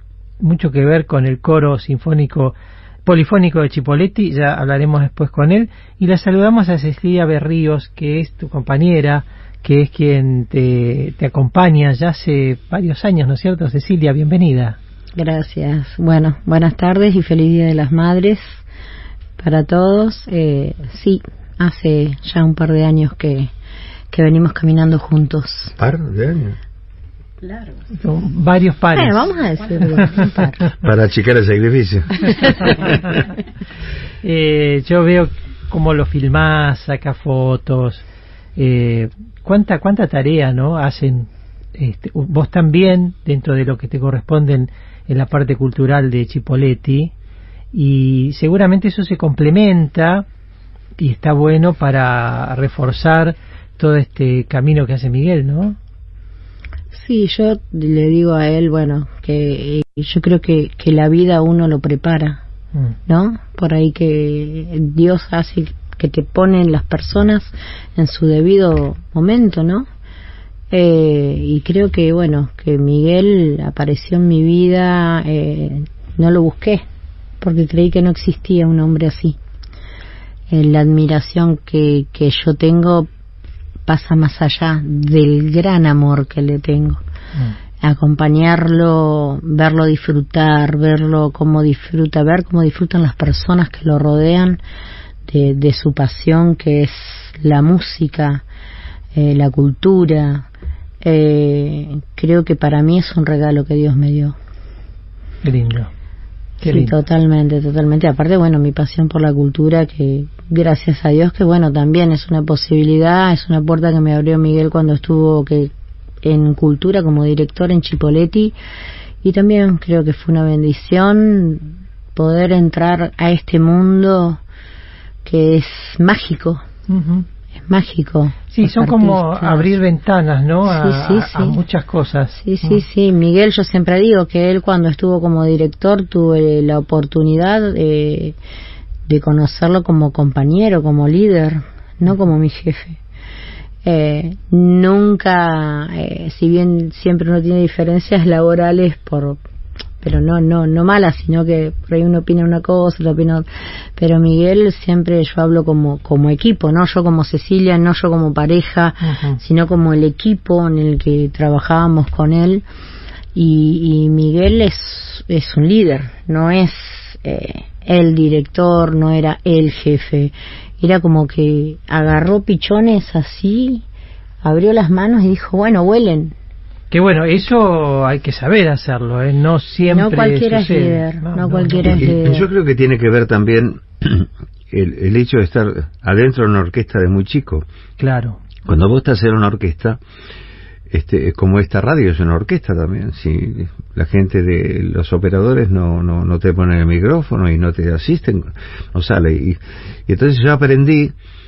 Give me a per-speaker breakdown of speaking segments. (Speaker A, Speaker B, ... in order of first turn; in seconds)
Speaker A: 0.4-14.8, 28.0-29.3, 34.2-38.0, 38.6-47.1, 47.7-50.2, 51.0-55.8, 105.4-105.9, 106.6-106.9, 126.9-127.2, 128.5-132.8, 159.0-159.4, 176.9-182.1, 188.0-188.4
Speaker B: 15.1-18.6, 19.4-23.5, 24.1-25.7, 28.9-30.7, 32.4-32.7, 56.9-62.4, 63.1-69.9, 70.7-76.8, 77.4-79.4, 80.5-83.1, 83.8-87.0, 87.8-94.6, 95.3-98.4, 99.1-100.5, 101.0-104.3, 106.6-115.7, 116.2-118.5, 119.2-124.4, 125.2-126.6, 127.6-129.7, 130.7-131.6, 132.3-138.4, 139.1-143.0, 143.8-149.4, 150.0-162.6, 163.3-173.8, 174.4-176.3, 179.9-182.5
Speaker C: 25.8-26.6, 30.8-32.7, 181.8-187.7, 188.7-190.0, 190.9-201.1